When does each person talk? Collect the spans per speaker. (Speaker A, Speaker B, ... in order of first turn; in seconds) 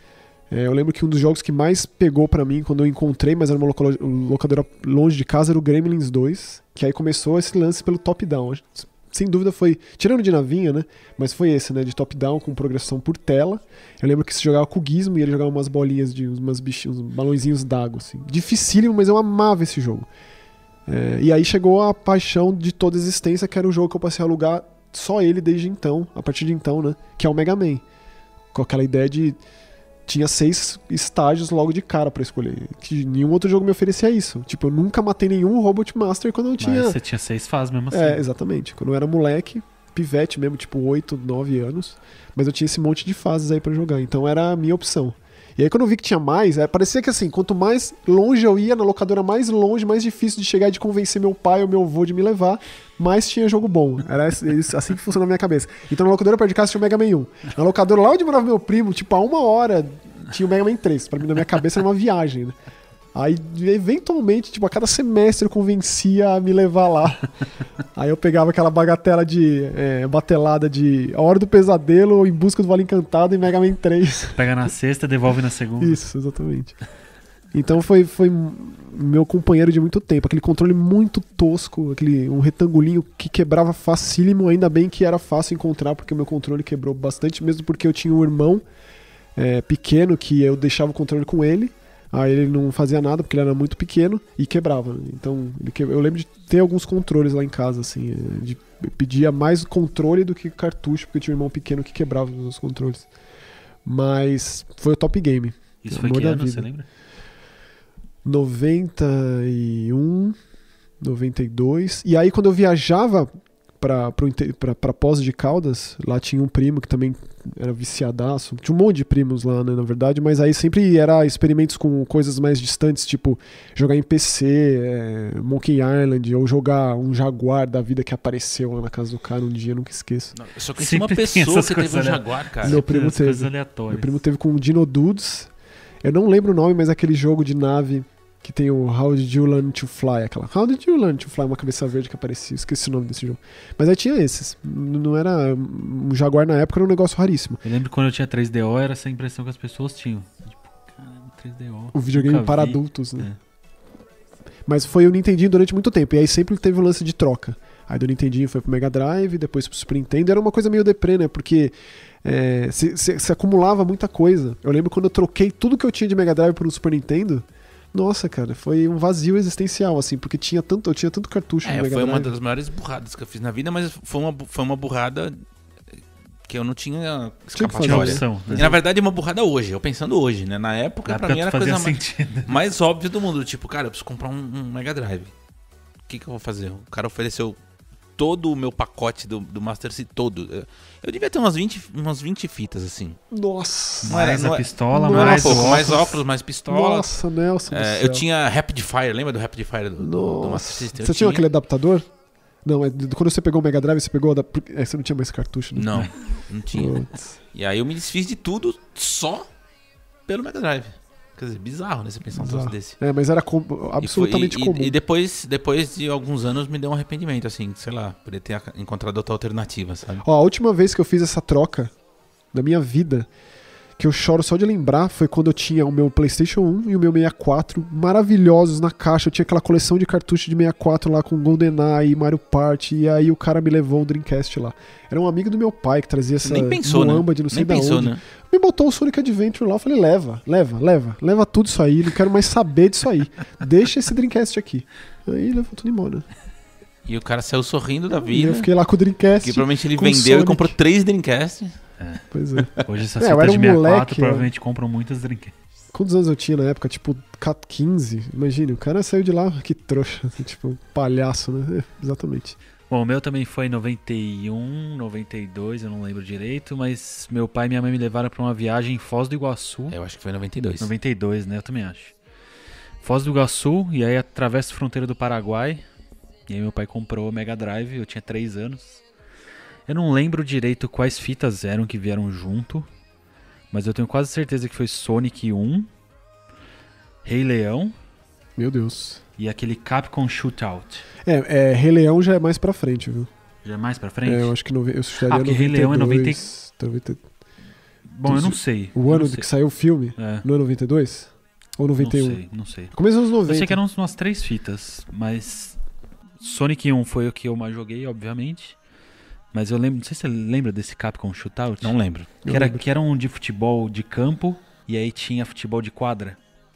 Speaker A: 0.5-20.1, 20.9-27.8, 28.5-29.4, 30.1-37.0, 37.9-62.5, 63.1-67.3, 67.9-74.4, 75.8-76.8, 77.5-88.6, 89.4-103.1, 103.8-106.7, 108.2-110.3, 111.0-113.3, 113.8-130.3, 132.6-135.5, 136.0-147.6, 151.9-153.3, 154.7-172.3, 177.5-178.8, 193.3-194.1, 194.9-198.2, 200.0-202.1, 202.6-206.0, 206.7-207.4, 212.3-214.9, 220.2-221.9, 222.5-223.3, 224.0-246.2, 248.2-250.8, 252.3-254.5, 255.9-262.6, 288.6-289.2, 291.2-293.3, 294.2-297.2, 298.2-302.4, 302.9-303.8, 312.4-312.9
Speaker B: 36.6-38.2, 74.4-76.0, 105.8-106.9, 130.8-134.1, 147.6-153.4, 177.8-178.7, 181.0-182.6, 194.0-196.1, 252.0-252.2, 252.8-255.5, 262.9-270.0, 270.8-272.1, 273.0-275.8, 276.5-279.0, 279.9-282.9, 283.7-285.9, 287.2-287.9, 289.4-291.0, 293.6-294.5, 295.2-296.4, 298.0-299.5, 300.2-300.4, 302.0-302.9, 303.4-305.8, 306.4-308.8, 309.5-316.4
Speaker C: 130.3-132.8, 171.6-175.3, 176.5-185.3, 186.1-187.6, 188.2-193.2, 194.1-197.1, 197.7-201.5, 205.8-209.4, 210.3-213.0, 214.0-220.2, 236.4-238.2, 247.1-248.7, 249.4-251.8, 269.9-270.9, 311.8-312.3